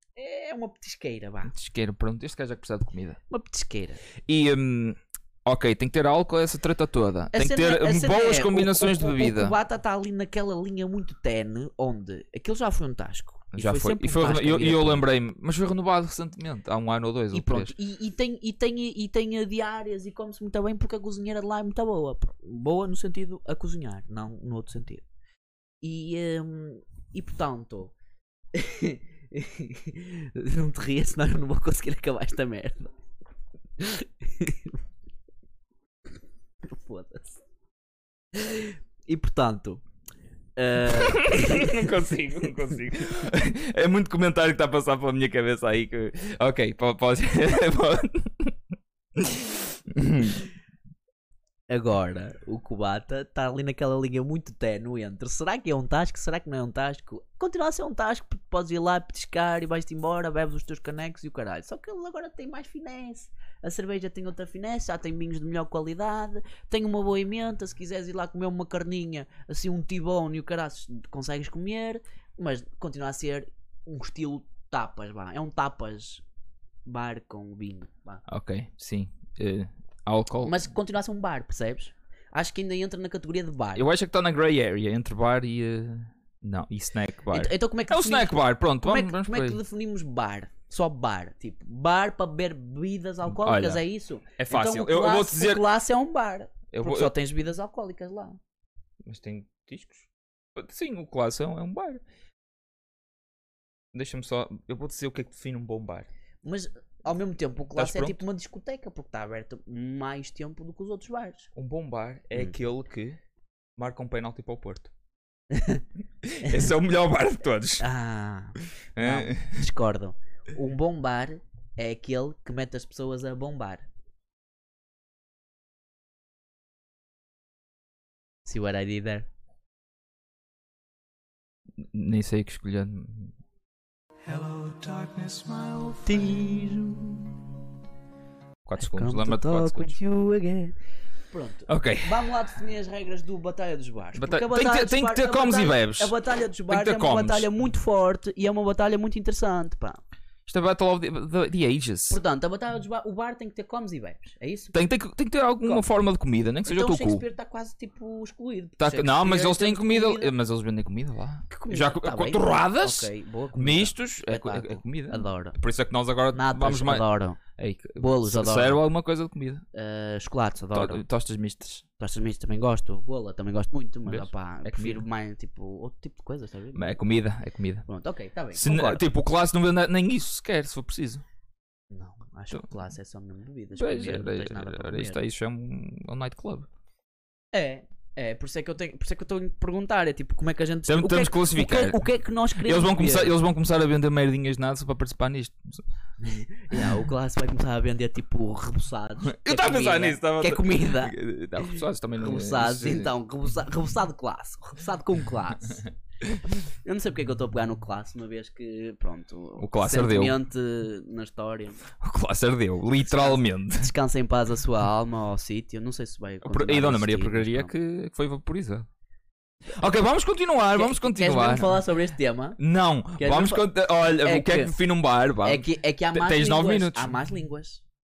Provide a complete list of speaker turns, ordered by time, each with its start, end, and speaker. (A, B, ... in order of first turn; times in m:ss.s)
0:00.2-0:01.5 A
0:01.5-0:03.2 B
0:03.3-0:04.0 A
0:04.3-0:09.6 B
0:07.3-0:15.0 A
0:13.5-0:17.7 B
0:17.3-0:25.0 A
0:25.8-0:27.9 A
0:28.5-0:32.9 A
0:33.8-0:34.8 A
0:36.6-0:37.4 A
0:38.3-0:39.8 A
0:40.6-0:42.1 A
0:40.8-0:48.6 B
0:49.2-0:50.4 B
0:51.7-1:16.2 A
1:16.9-1:18.2 A
1:18.3-1:20.6 B
1:20.4-1:23.8 A
1:23.8-1:29.6 B
1:27.3-1:38.4 A
1:33.4-1:33.8 B
1:34.4-1:35.6 B
1:36.7-1:37.1 B
1:39.0-1:42.0 B
1:43.9-1:46.1 B
1:46.4-1:51.5 A
1:47.8-1:48.2 B
1:51.6-1:53.2 B
1:53.8-1:54.9 B
1:55.5-1:55.8 A
1:56.2-1:57.8 B
1:56.4-1:56.7 A
1:57.8-2:03.9 A
1:59.0-1:59.5 B
2:08.5-2:09.3 A
2:11.9-2:13.3 B
2:14.2-2:16.4 C
2:16.0-2:17.3 A
2:18.7-2:20.0 B
2:18.8-2:20.8 A
2:21.3-2:30.0 A
2:21.7-2:22.3 B
2:24.2-2:26.2 B
2:26.7-2:27.5 B
2:30.5-2:32.2 B
2:32.1-2:34.8 A
2:34.7-2:37.2 B
2:36.6-2:40.3 A
2:38.8-2:47.0 B
2:41.5-2:45.6 A
2:46.3-2:47.4 A
2:47.6-2:49.6 B
2:48.0-2:48.8 A
2:49.7-2:51.0 A
2:50.7-2:51.8 B
2:52.0-2:57.0 A
2:54.1-2:55.0 B
2:56.8-2:57.8 B
2:57.9-2:59.0 A
2:58.5-3:01.2 B
3:01.9-3:05.2 A
3:03.8-3:06.7 B
3:07.5-3:13.4 A
3:10.9-3:12.0 B
3:12.6-3:15.8 B
3:16.2-3:25.8 A
3:19.3-3:23.1 B
3:26.8-3:31.8 A
3:29.6-3:30.4 B
3:32.0-3:33.9 B
3:33.0-3:37.7 A
3:36.4-3:38.9 B
3:39.7-3:41.8 B
3:40.7-3:42.6 A
3:42.6-3:47.2 B
3:43.2-3:44.7 A
3:45.4-3:47.8 A